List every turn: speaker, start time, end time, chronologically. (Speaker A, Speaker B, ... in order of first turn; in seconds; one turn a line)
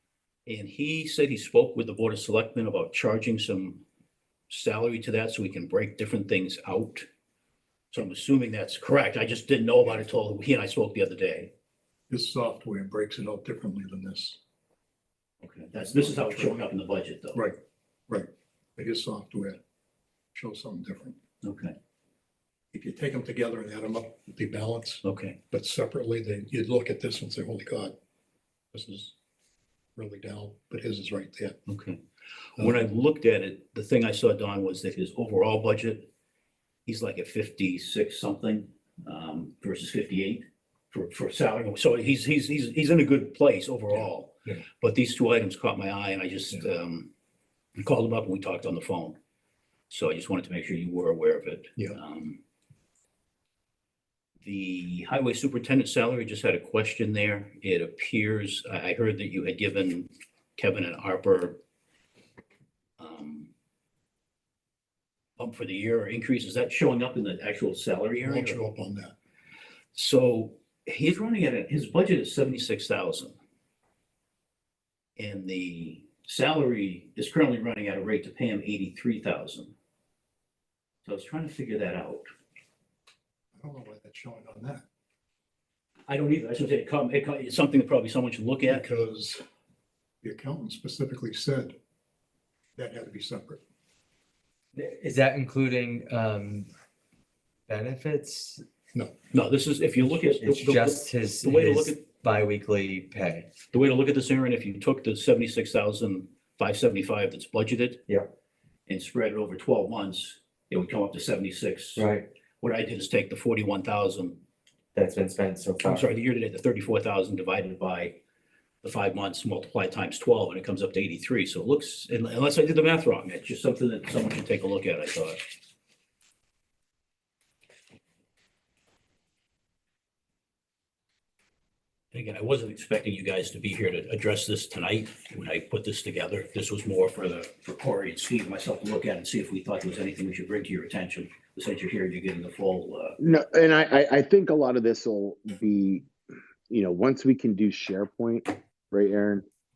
Speaker A: 0.5-3.8
Speaker A: 4.5-7.1
Speaker A: 7.9-11.5
Speaker B: 12.1-14.4
Speaker A: 15.4-17.4
Speaker B: 15.8-16.7
Speaker B: 17.3-19.6
Speaker B: 20.3-21.1
Speaker A: 21.4-21.7
Speaker B: 22.7-27.9
Speaker A: 25.0-25.4
Speaker B: 28.7-29.1
Speaker B: 29.9-31.6
Speaker A: 31.7-32.0
Speaker A: 32.5-36.1
Speaker A: 36.9-47.1
Speaker B: 43.9-44.5
Speaker A: 47.8-49.1
Speaker A: 49.9-52.4
Speaker A: 54.4-61.6
Speaker A: 63.0-63.5
Speaker A: 65.4-68.6
Speaker B: 68.2-69.1
Speaker A: 69.9-73.3
Speaker A: 75.2-79.7
Speaker A: 81.0-82.3
Speaker B: 83.5-84.8
Speaker A: 86.1-88.8
Speaker B: 88.6-89.4
Speaker B: 90.2-91.7
Speaker B: 92.8-93.6
Speaker C: 94.7-96.7
Speaker C: 97.7-98.6
Speaker A: 99.3-102.0
Speaker C: 100.0-103.5
Speaker A: 103.7-108.0
Speaker A: 108.9-112.1
Speaker C: 112.0-112.2
Speaker A: 112.6-114.4
Speaker C: 114.9-116.1
Speaker A: 115.8-118.2
Speaker A: 118.8-125.4
Speaker A: 132.1-143.2
Speaker D: 143.2-146.1
Speaker D: 146.7-149.4